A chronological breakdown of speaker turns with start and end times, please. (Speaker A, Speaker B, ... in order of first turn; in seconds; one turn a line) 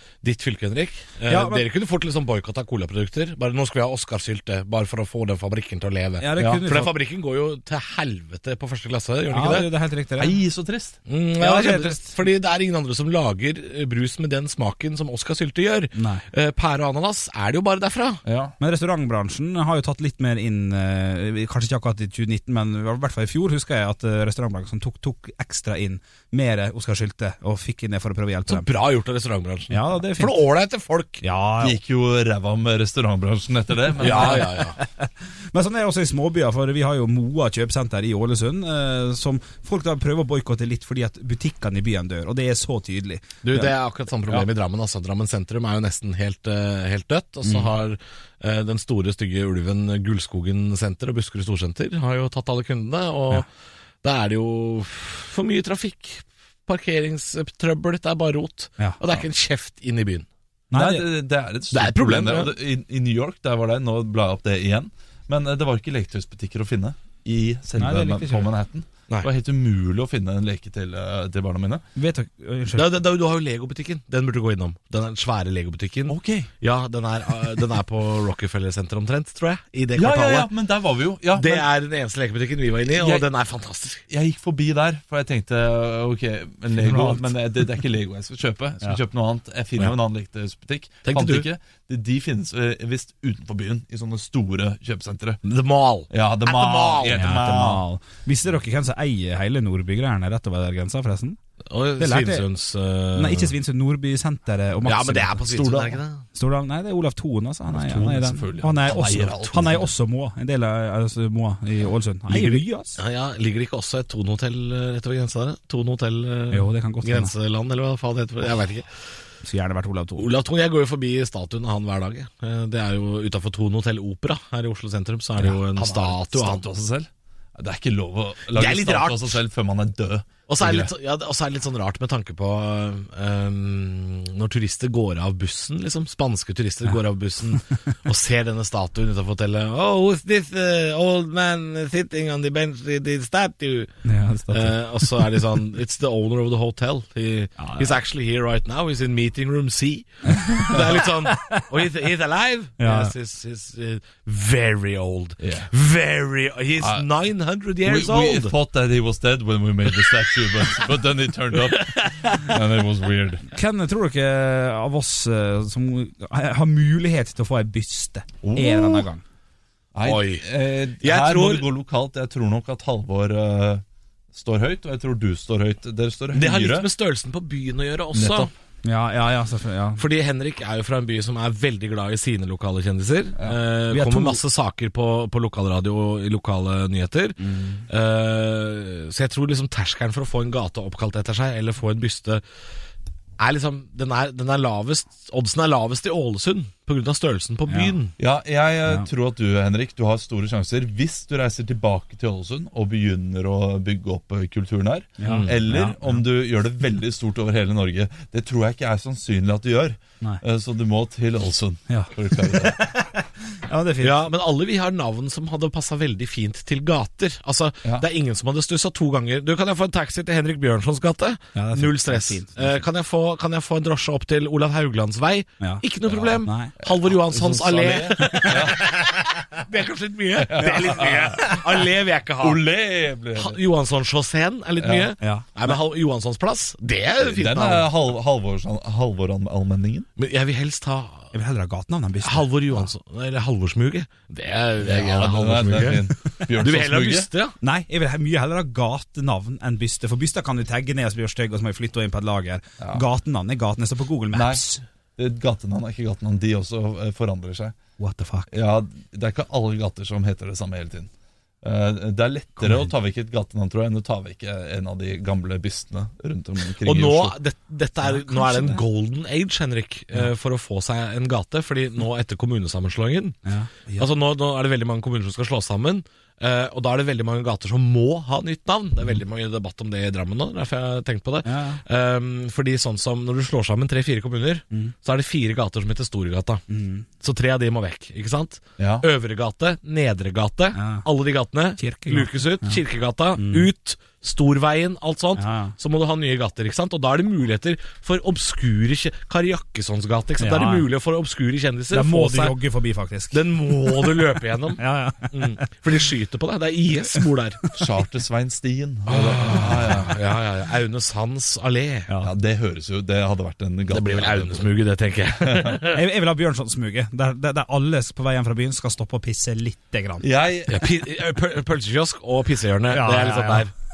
Speaker A: 0.2-9.7
Speaker B: 1.3-1.6
Speaker B: 6.2-7.0
Speaker C: 6.4-6.7
Speaker B: 9.3-10.4
Speaker C: 10.2-11.0
Speaker A: 11.1-18.2
Speaker B: 11.4-12.1
Speaker B: 15.9-16.2
Speaker C: 18.2-18.6
Speaker B: 18.6-28.7
Speaker A: 28.5-31.2
Speaker B: 29.7-30.4
Speaker B: 31.2-31.8
Speaker C: 31.6-34.5
Speaker A: 34.0-34.8
Speaker B: 34.0-43.7
Speaker A: 43.4-53.5
Speaker B: 47.5-47.7
Speaker A: 54.0-60.3
Speaker B: 60.7-61.0
Speaker C: 60.7-71.8
Speaker A: 61.7-62.5
Speaker B: 67.8-68.5
Speaker B: 72.0-72.9
Speaker A: 72.8-80.5
Speaker C: 76.1-76.5
Speaker C: 80.0-81.7
Speaker A: 81.3-84.0
Speaker C: 82.9-83.3
Speaker C: 84.1-95.4
Speaker B: 86.9-87.3
Speaker A: 91.0-91.5
Speaker A: 95.4-97.2
Speaker C: 96.1-97.8
Speaker B: 97.1-101.4
Speaker A: 101.7-103.5
Speaker B: 102.0-102.5
Speaker B: 103.2-105.6
Speaker A: 104.8-106.2
Speaker C: 105.5-106.0
Speaker B: 106.3-113.0
Speaker C: 107.7-109.9
Speaker A: 112.3-118.9
Speaker B: 116.5-117.3
Speaker B: 119.4-120.3
Speaker A: 120.2-126.7
Speaker C: 125.7-130.9
Speaker A: 128.5-129.4
Speaker A: 130.5-158.6
Speaker B: 144.0-145.4
Speaker B: 147.6-148.0
Speaker B: 150.3-151.7
Speaker B: 152.8-153.1
Speaker C: 155.4-155.7
Speaker C: 156.8-157.1
Speaker C: 157.8-163.5
Speaker A: 161.5-162.6
Speaker B: 163.5-169.2
Speaker C: 168.4-169.1
Speaker C: 169.9-176.9
Speaker A: 170.0-171.7
Speaker A: 176.3-178.5
Speaker C: 178.1-178.5
Speaker B: 178.8-180.0
Speaker A: 180.0-192.4
Speaker B: 183.9-184.4
Speaker B: 187.4-187.8
Speaker A: 193.4-198.1
Speaker B: 197.7-198.0
Speaker C: 198.2-212.8
Speaker B: 205.2-206.2
Speaker A: 205.2-205.5
Speaker B: 211.9-214.3
Speaker A: 214.0-232.6
Speaker B: 221.6-222.6
Speaker C: 226.1-229.0
Speaker B: 226.4-226.7
Speaker B: 228.2-228.9
Speaker C: 230.4-231.6
Speaker B: 230.5-231.6
Speaker C: 232.4-233.6
Speaker A: 233.3-237.9
Speaker C: 234.8-235.1
Speaker B: 235.2-235.7
Speaker C: 237.2-240.1
Speaker A: 240.2-241.3
Speaker B: 241.3-242.9
Speaker A: 242.2-247.6
Speaker C: 244.8-247.3
Speaker B: 247.6-254.8
Speaker C: 254.3-254.6
Speaker C: 255.2-257.8
Speaker B: 258.0-258.5
Speaker C: 258.5-261.1
Speaker C: 261.6-267.4
Speaker B: 262.6-262.9
Speaker A: 266.8-273.4
Speaker B: 268.1-268.8
Speaker B: 273.4-274.1
Speaker A: 274.0-286.6
Speaker B: 281.4-281.8
Speaker B: 286.7-287.1
Speaker A: 287.2-302.6
Speaker C: 288.8-289.1
Speaker B: 290.8-291.1
Speaker B: 291.8-292.8
Speaker B: 293.4-293.7
Speaker B: 295.4-295.8
Speaker B: 300.4-300.9
Speaker B: 301.9-305.7
Speaker A: 303.3-307.6
Speaker C: 307.7-310.2
Speaker A: 309.1-312.1
Speaker B: 309.6-309.9
Speaker C: 312.2-314.7
Speaker A: 313.9-316.0
Speaker C: 315.4-315.8
Speaker B: 315.9-320.3
Speaker C: 320.2-320.9
Speaker A: 320.7-323.7
Speaker B: 322.9-323.7